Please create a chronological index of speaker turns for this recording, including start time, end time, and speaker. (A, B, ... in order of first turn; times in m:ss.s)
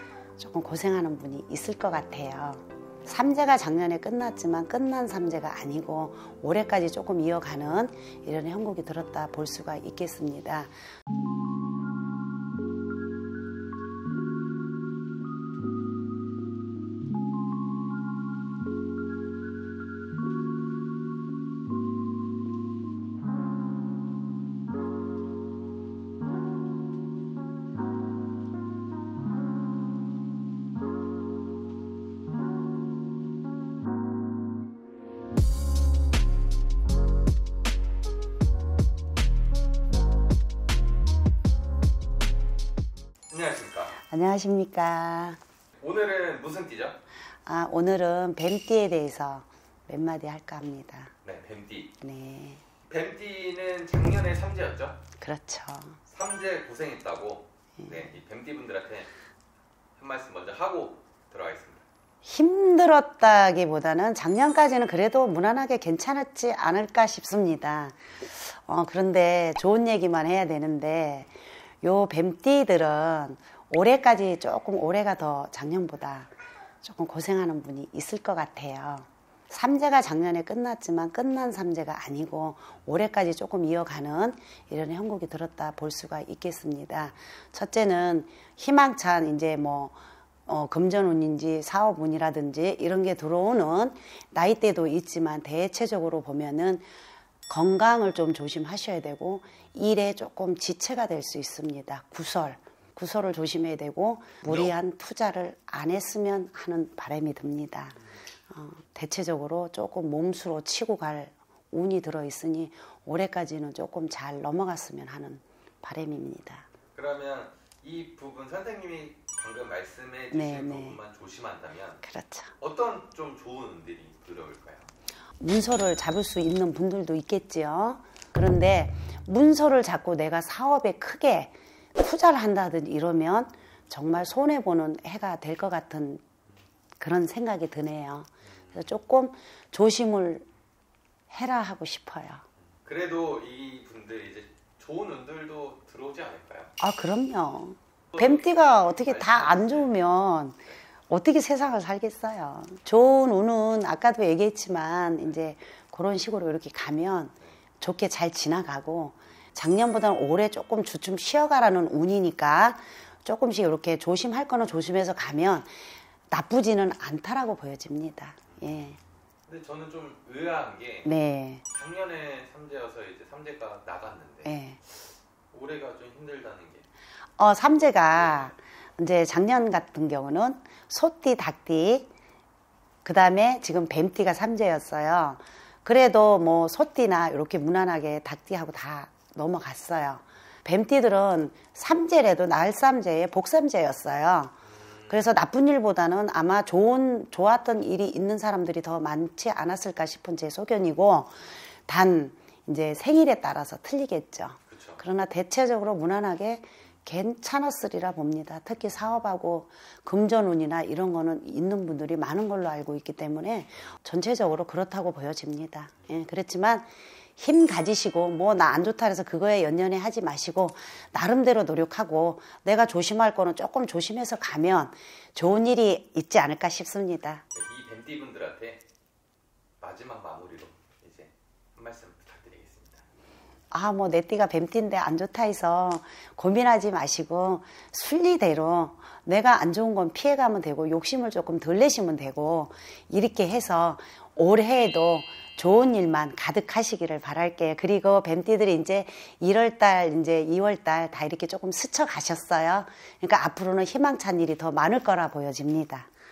0:00.4-0:10.7 A
0:43.3-0:44.0 B
0:44.0-0:45.4 A
0:45.8-0:47.0 B
0:47.4-0:51.1 A
0:51.2-0:51.9 B
0:52.0-0:52.6 A
0:52.9-0:55.0 B
0:55.2-0:56.0 A
0:56.1-0:59.1 B
0:57.8-0:58.1 A
1:00.0-1:01.8 B
1:02.2-1:16.3 A
1:16.8-1:36.8 A
1:37.5-1:48.0 A
1:44.5-1:44.7 B
1:48.5-1:56.6 A
1:56.9-2:02.0 B
2:00.3-2:01.0 A
2:02.0-2:02.5 A
2:02.6-2:04.9 B
2:05.4-2:16.2 A
2:17.0-2:20.4 A
2:21.3-2:22.4 A
2:22.8-2:26.7 B
2:26.8-2:49.0 A
2:28.1-2:29.9 B
2:49.5-2:51.1 B
2:51.0-2:51.6 A
2:51.7-2:56.8 B
2:54.4-2:54.8 A
2:57.4-3:02.1 A
2:58.0-2:58.5 B
3:03.0-3:14.6 A
3:14.7-3:15.3 B
3:15.1-3:47.4 A
3:24.7-3:25.0 B
3:47.5-3:48.8 B
3:49.8-3:53.0 B
3:53.7-4:16.1 A